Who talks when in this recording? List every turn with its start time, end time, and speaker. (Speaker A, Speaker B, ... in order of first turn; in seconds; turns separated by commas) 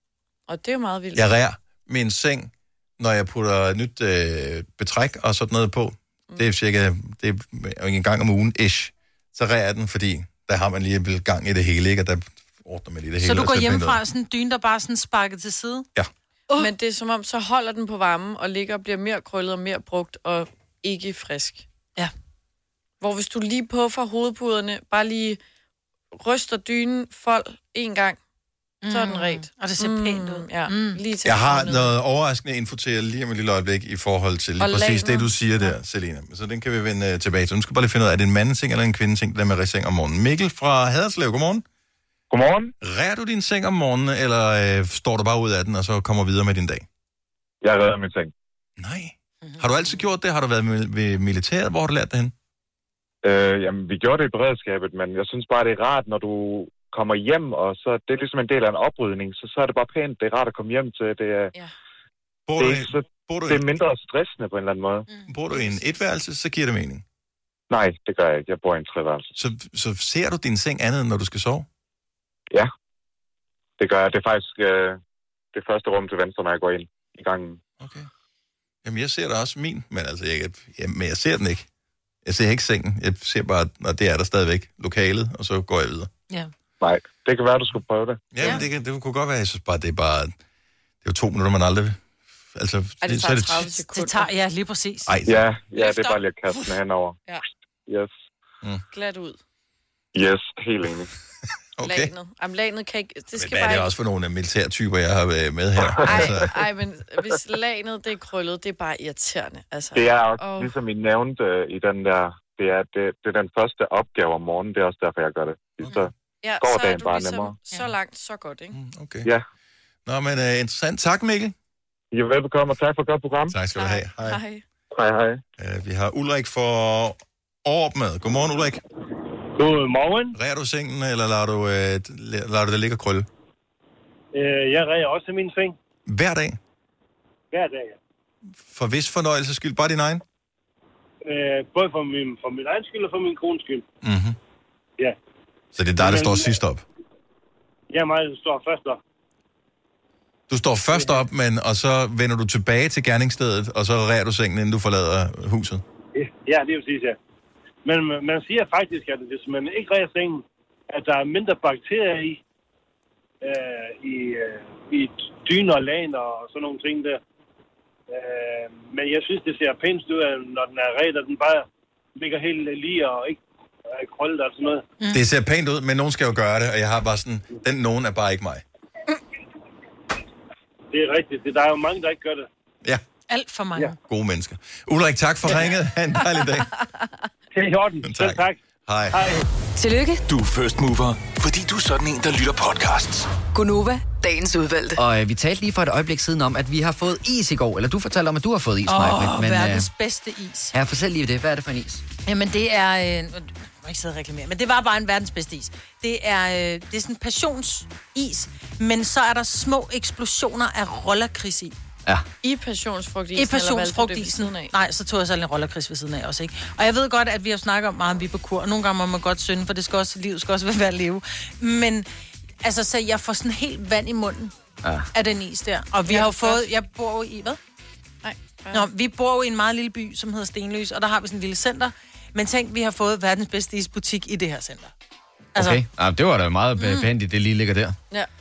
Speaker A: 0.5-1.3, Speaker B: 1.1-14.0, Speaker C: 13.2-15.9, Speaker A: 16.5-21.6, Speaker A: 23.0-25.4, Speaker A: 26.1-28.2, Speaker C: 28.8-31.0, Speaker A: 28.8-31.9, Speaker B: 31.2-41.6, Speaker A: 34.6-35.3, Speaker D: 42.3-42.7, Speaker B: 42.8-46.8, Speaker D: 47.6-48.3, Speaker B: 48.8-52.3, Speaker C: 49.5-49.9, Speaker D: 53.2-61.5, Speaker B: 62.5-63.6, Speaker D: 62.6-65.1, Speaker C: 65.1-65.8, Speaker B: 65.3-67.0, Speaker D: 67.7-69.3, Speaker B: 69.4-71.7, Speaker D: 73.8-75.0, Speaker D: 75.5-77.6, Speaker B: 77.8-78.1, Speaker B: 78.8-81.7, Speaker B: 82.2-86.1, Speaker D: 86.8-88.6, Speaker B: 88.3-90.3, Speaker C: 88.4-88.7, Speaker B: 91.0-92.0, Speaker B: 92.5-93.7, Speaker A: 93.0-94.3, Speaker C: 93.9-95.1, Speaker B: 95.1-95.5, Speaker D: 95.3-97.2, Speaker D: 97.9-98.1, Speaker A: 98.9-99.4, Speaker D: 100.1-101.1, Speaker B: 101.8-102.1, Speaker A: 101.8-103.9, Speaker B: 103.4-106.7, Speaker D: 105.8-106.3, Speaker A: 106.0-110.7, Speaker D: 109.9-117.5, Speaker A: 116.4-118.8, Speaker B: 118.7-119.3, Speaker B: 120.1-121.5, Speaker D: 122.1-123.6, Speaker B: 123.5-124.4, Speaker A: 123.8-124.6, Speaker D: 124.9-125.4, Speaker B: 125.6-128.8, Speaker E: 129.6-130.3, Speaker B: 130.3-133.2, Speaker E: 134.3-135.8, Speaker B: 136.1-136.6, Speaker E: 137.5-138.0, Speaker B: 138.7-140.2, Speaker E: 141.3-143.8, Speaker B: 144.0-144.4, Speaker B: 145.7-146.8, Speaker E: 146.0-146.5, Speaker E: 147.9-149.0, Speaker B: 150.5-155.8, Speaker E: 150.9-151.2, Speaker E: 156.2-157.2, Speaker E: 157.8-162.4, Speaker E: 163.4-167.2, Speaker E: 168.1-171.7, Speaker E: 172.2-173.4, Speaker E: 173.9-174.8, Speaker B: 175.1-178.6, Speaker E: 180.9-182.5, Speaker C: 183.3-183.9, Speaker B: 184.1-186.7, Speaker E: 187.6-188.6, Speaker B: 188.0-189.2, Speaker E: 189.1-189.4, Speaker F: 189.8-190.2, Speaker G: 190.3-193.3, Speaker F: 193.5-195.0, Speaker H: 194.9-199.9, Speaker C: 198.9-200.8, Speaker H: 200.7-202.1, Speaker C: 202.2-211.8, Speaker A: 212.4-214.7, Speaker C: 213.3-222.1, Speaker C: 222.6-224.5, Speaker C: 225.1-227.6, Speaker A: 226.1-226.7, Speaker A: 228.2-228.9, Speaker C: 228.7-234.9, Speaker C: 235.6-235.8, Speaker H: 235.6-238.0, Speaker C: 236.8-237.1